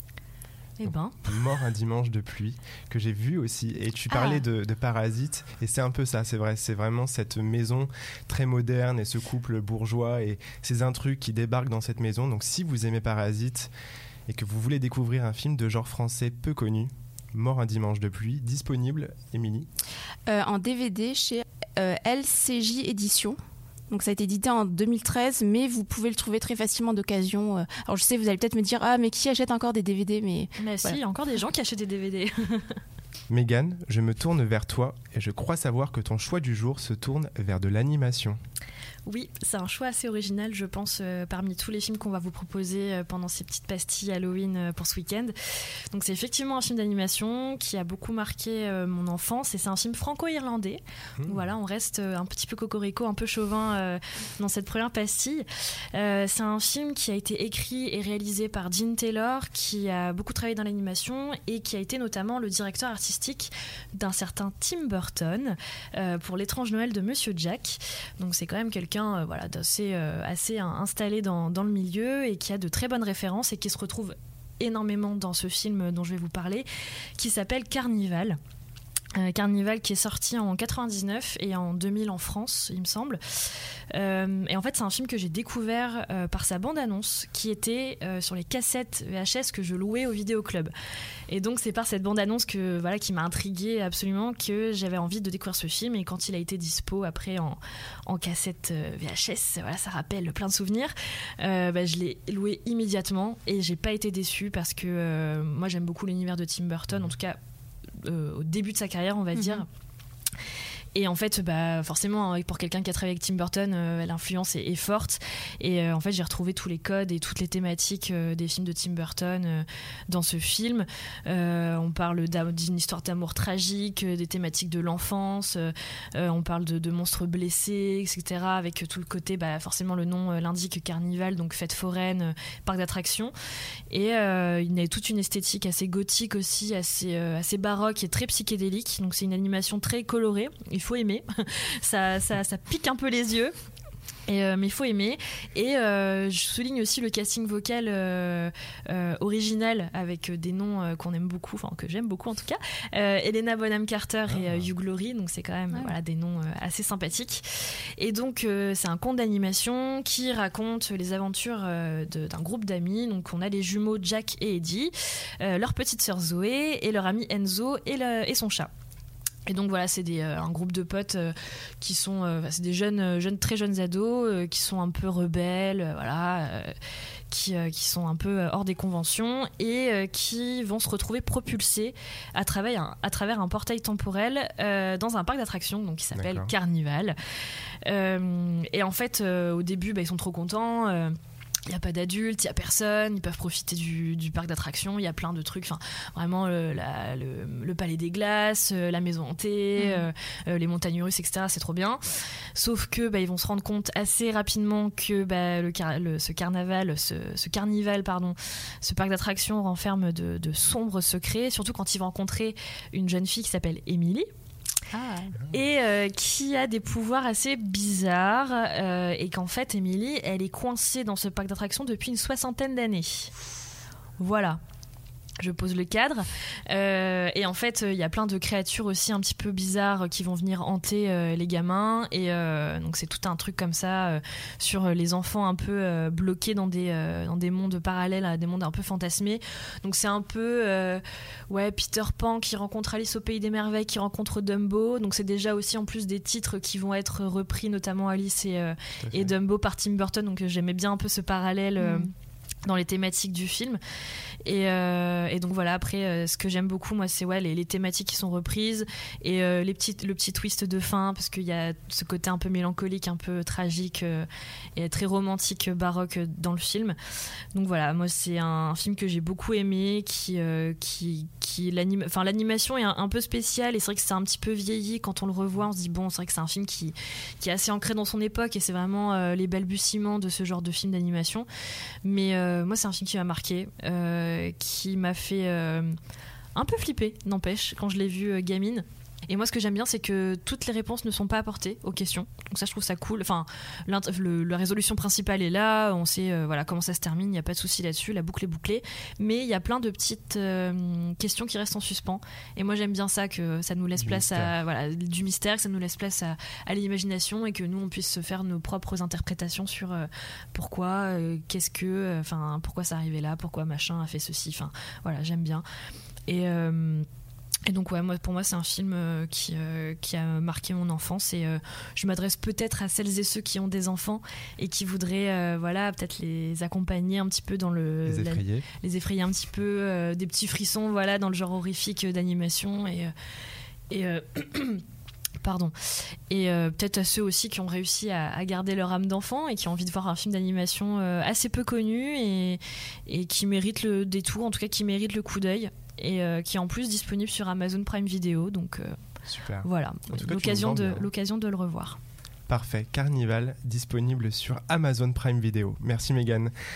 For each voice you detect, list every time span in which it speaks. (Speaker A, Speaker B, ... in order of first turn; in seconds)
Speaker A: 0.8-1.2, 4.1-4.4, 30.6-32.8, 39.1-45.3, 45.9-78.4, 79.2-83.2, 83.9-90.7, 91.3-107.4, 108.0-109.7, 110.9-133.3, 133.9-143.5, 144.3-157.4, 158.0-168.7, 169.5-176.7, 177.3-187.2, 187.8-191.2, 191.7-202.0, 202.6-214.3, 215.4-223.3, 224.2-224.6, 225.4-252.1, 252.7-253.8, 254.4-267.0, 267.6-281.5, 282.0-286.0, 286.6-315.6, 316.3-317.1, 317.7-333.1, 333.9-334.8, 335.4-335.7, 336.3-348.9, 349.6-352.0
Speaker B: 1.2-13.7, 14.3-19.7, 33.3-38.4, 51.2-51.5, 154.3-154.7, 186.2-186.5, 249.0-249.3, 304.0-304.5, 328.1-328.7, 349.3-351.1, 352.5-356.5
Speaker C: 20.3-23.4, 23.9-31.0, 109.3-109.7, 199.8-200.1, 214.9-215.4, 251.8-252.1